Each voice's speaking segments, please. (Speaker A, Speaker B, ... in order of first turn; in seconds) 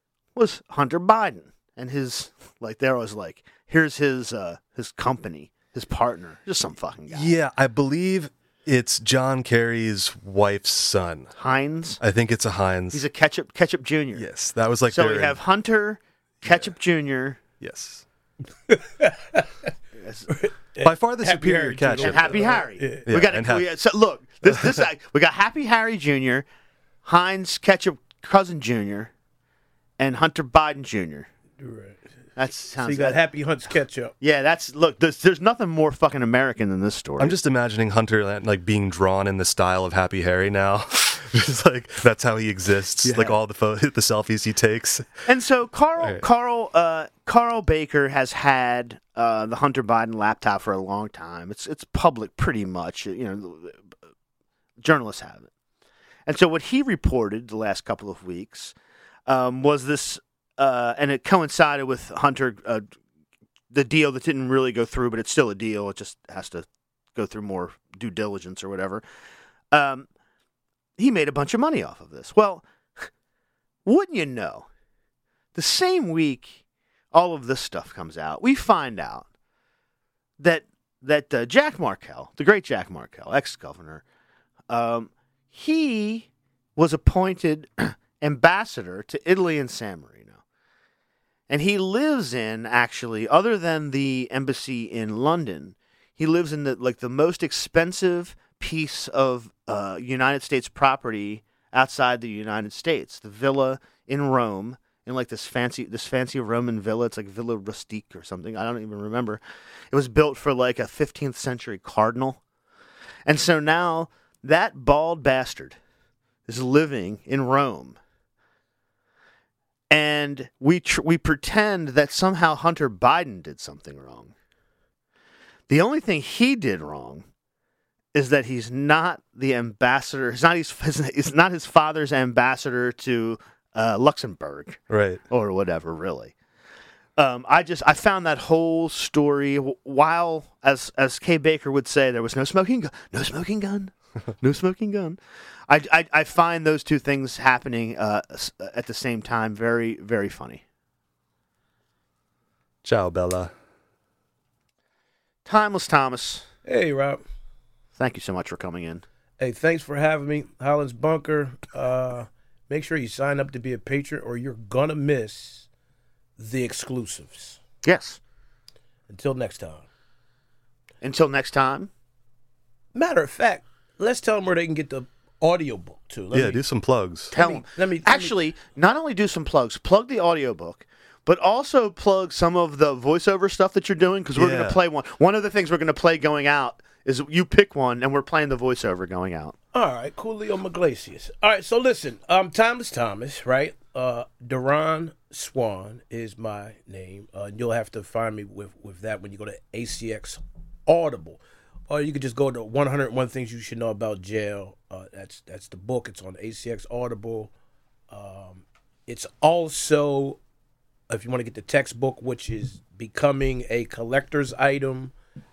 Speaker A: 0.3-7.3, 11.3-12.0, 12.9-14.3, 14.9-17.4, 20.0-20.3, 22.0-26.5, 27.0-29.1, 30.0-31.3, 32.4-33.2, 34.2-37.4, 43.0-43.4, 45.3-53.9, 54.8-55.5, 56.3-58.7, 59.3-62.9, 63.7-69.0, 69.7-70.1, 71.0-73.1, 73.9-74.7, 75.5-76.6, 77.1-79.3, 80.4-84.0, 84.7-90.4, 91.5-112.4, 113.3-115.8, 116.5-118.0, 119.9-124.3, 125.7-127.3, 128.1-136.3, 137.2-150.6, 155.4-156.5, 158.0-159.0, 167.8-168.2, 171.0-171.9, 177.3-189.6
Speaker B: 7.1-11.3, 12.0-13.0, 14.2-15.4, 16.4-16.7, 17.6-18.1, 20.8-23.7, 24.5-24.8, 37.2-45.1, 46.0-46.2, 134.9-135.2, 152.8-153.5, 176.3-177.3, 184.4-184.8
Speaker C: 18.7-19.5, 20.3-23.1, 31.6-32.0, 32.8-34.1, 156.7-157.2, 159.4-165.7, 166.4-167.6, 169.1-169.9, 172.9-176.6, 177.3-178.4, 189.7-207.5, 208.1-210.4, 211.1-215.1